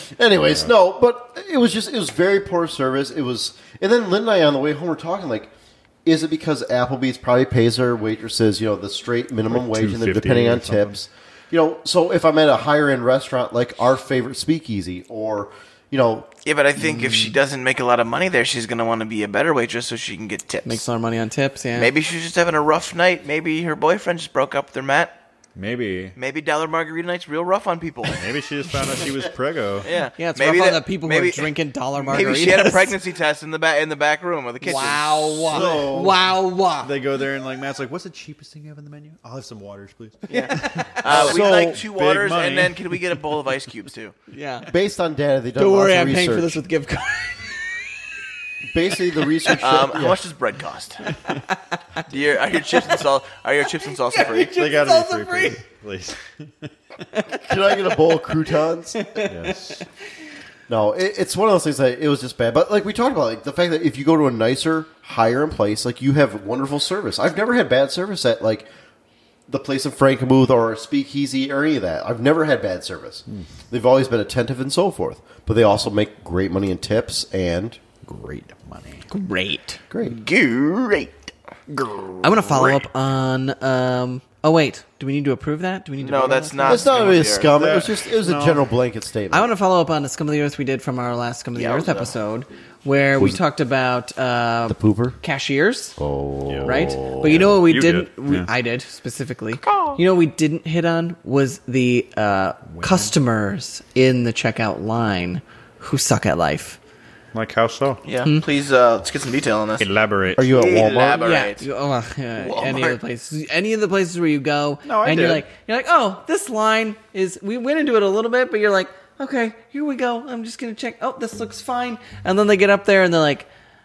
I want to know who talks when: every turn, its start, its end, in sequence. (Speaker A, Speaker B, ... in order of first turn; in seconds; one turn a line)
Speaker A: 0.2-5.5
Speaker A: 6.0-16.3
Speaker B: 9.5-10.9
Speaker C: 16.4-20.8
Speaker D: 20.6-21.9
Speaker C: 21.8-25.1
Speaker B: 25.5-26.1
Speaker C: 26.1-28.2
Speaker B: 28.1-29.9
Speaker C: 29.8-35.4
Speaker D: 30.2-33.0
Speaker D: 34.6-36.9
Speaker A: 35.5-36.2
Speaker B: 36.8-43.0
Speaker D: 40.3-41.2
Speaker C: 41.0-44.1
Speaker A: 41.0-41.8
Speaker D: 44.3-44.7
Speaker A: 44.7-46.6
Speaker D: 45.5-47.8
Speaker A: 48.6-50.2
Speaker C: 49.6-51.1
Speaker D: 51.0-53.0
Speaker C: 52.1-54.6
Speaker D: 53.8-55.6
Speaker B: 54.4-56.7
Speaker D: 57.1-57.4
Speaker A: 57.4-59.4
Speaker D: 58.9-59.9
Speaker B: 59.2-59.8
Speaker A: 60.7-68.7
Speaker A: 69.5-77.8
Speaker B: 78.0-79.1
Speaker D: 79.1-79.8
Speaker A: 79.9-80.2
Speaker C: 80.0-81.3
Speaker B: 81.7-82.4
Speaker D: 82.2-86.9
Speaker C: 82.4-82.8
Speaker C: 86.0-87.5
Speaker A: 86.6-89.5
Speaker B: 87.4-88.7
Speaker D: 89.3-96.0
Speaker C: 91.5-92.1
Speaker A: 94.7-95.2
Speaker A: 96.0-97.5
Speaker B: 96.5-98.5
Speaker D: 96.6-106.8
Speaker C: 99.6-100.0
Speaker B: 102.7-103.1
Speaker B: 107.3-108.0
Speaker C: 108.0-109.8
Speaker B: 109.8-110.9
Speaker A: 110.3-111.3
Speaker C: 110.5-111.7
Speaker D: 111.2-123.5
Speaker C: 112.4-113.0
Speaker B: 114.8-115.4